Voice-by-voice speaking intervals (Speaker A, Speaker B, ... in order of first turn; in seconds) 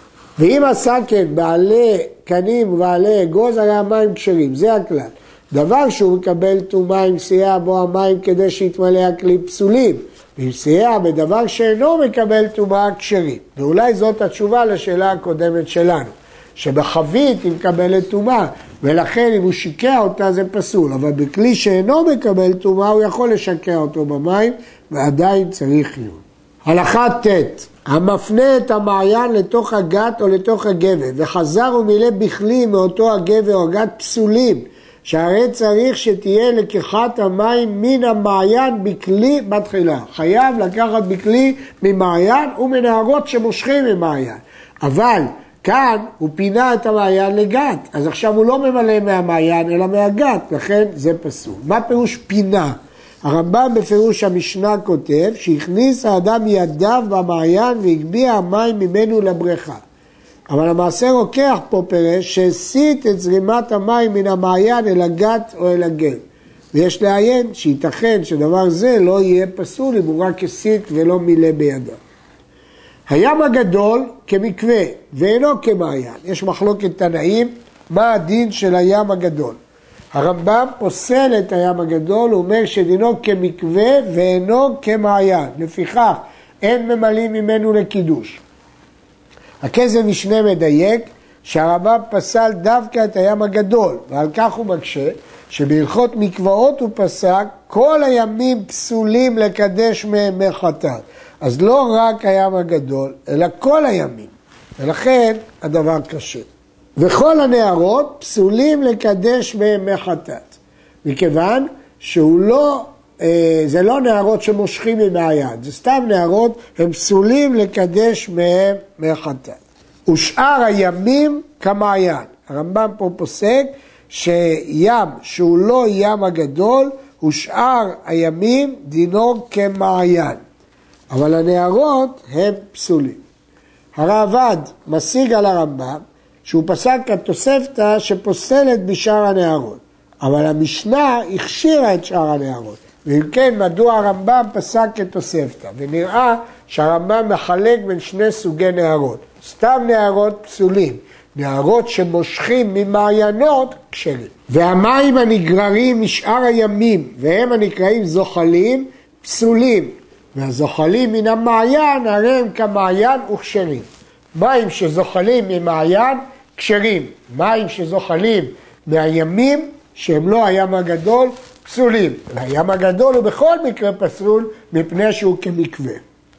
Speaker A: 0.4-59.8, 60.5-66.2, 66.7-72.0, 73.1-79.6, 80.1-88.4, 89.6-106.5, 107.0-130.4, 131.1-133.2, 133.9-176.0